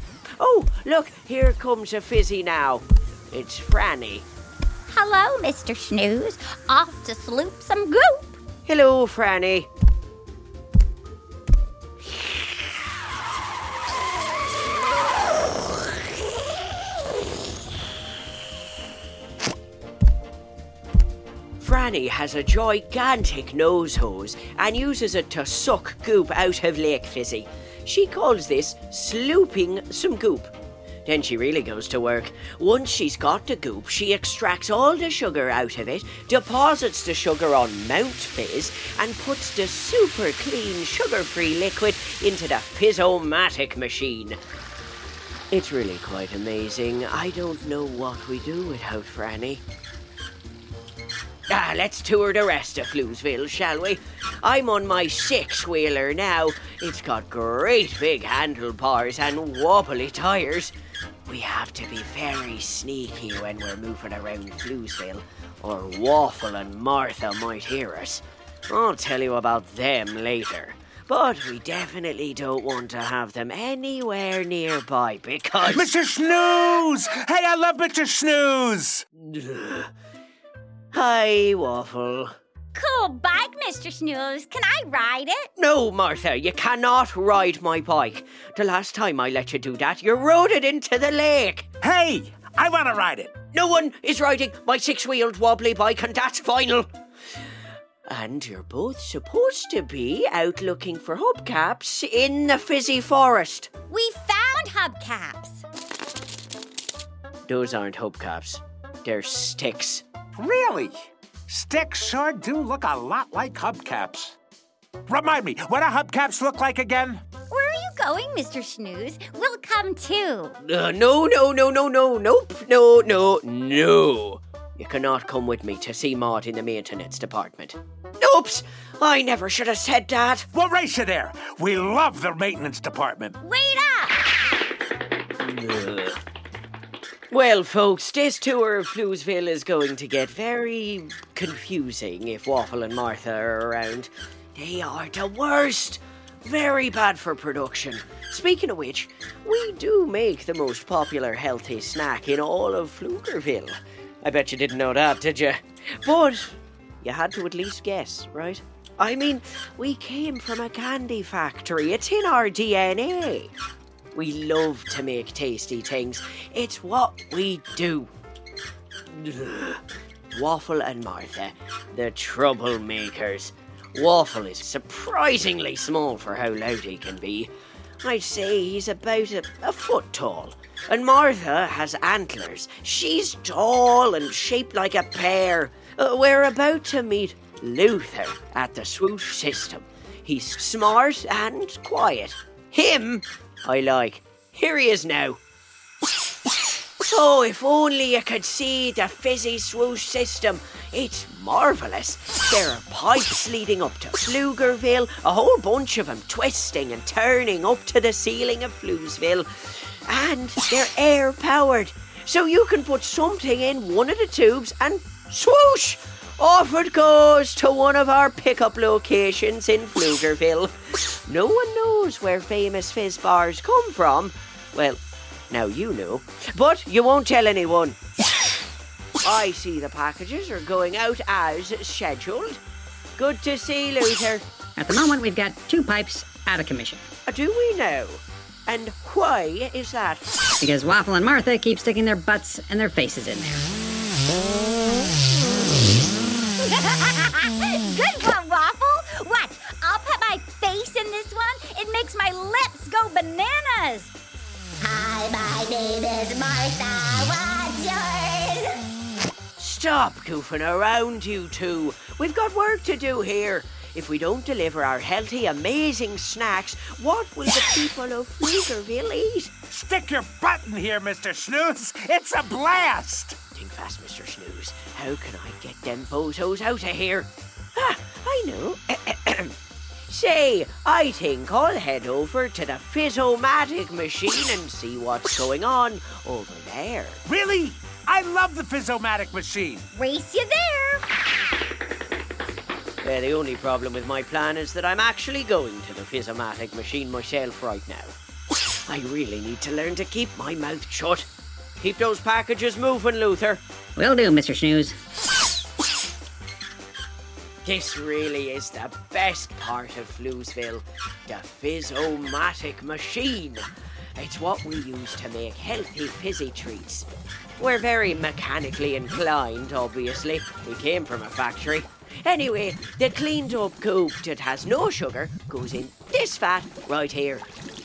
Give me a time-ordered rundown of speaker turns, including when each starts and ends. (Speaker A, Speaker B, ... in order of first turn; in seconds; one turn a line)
Speaker A: 0.4-4.3
Speaker B: 4.9-8.4
Speaker A: 8.7-9.7
Speaker A: 21.6-30.5
Speaker A: 31.1-44.4
Speaker A: 45.5-49.6
Speaker A: 51.5-60.7
Speaker A: 61.3-75.9
Speaker C: 75.7-79.0
Speaker A: 79.2-79.9
Speaker A: 80.9-82.3
Speaker B: 82.8-85.5
Speaker A: 85.6-91.7
Speaker C: 91.8-93.3
Speaker A: 93.5-96.9
Speaker A: 98.1-103.7
Speaker B: 103.9-105.6
Speaker A: 107.5-110.0
Speaker C: 110.4-111.0
Speaker C: 111.5-114.4
Speaker C: 115.1-117.2
Speaker B: 117.5-120.6
Speaker A: 120.6-130.5
Speaker C: 130.5-133.4
Speaker B: 133.4-134.2
Speaker A: 135.4-136.2
Speaker A: 137.3-163.5
Speaker A: 164.1-168.1
Speaker A: 169.1-169.8
Speaker A: 170.3-177.5
Speaker A: 178.0-195.4
Speaker A: 197.1-228.0
Speaker A: 229.2-232.6
Speaker A: 233.2-234.4
Speaker D: 234.8-237.1
Speaker A: 237.3-240.3
Speaker D: 240.6-243.7
Speaker B: 246.6-254.1
Speaker B: 254.8-258.8
Speaker A: 259.6-269.5
Speaker C: 269.7-273.4
Speaker A: 273.5-279.6
Speaker A: 280.1-287.2
Speaker C: 287.3-289.9
Speaker B: 289.9-291.0
Speaker A: 293.0-298.1
Speaker A: 298.9-301.3
Speaker A: 301.8-303.6
Speaker D: 304.0-305.0
Speaker A: 307.6-317.1
Speaker A: 317.6-327.5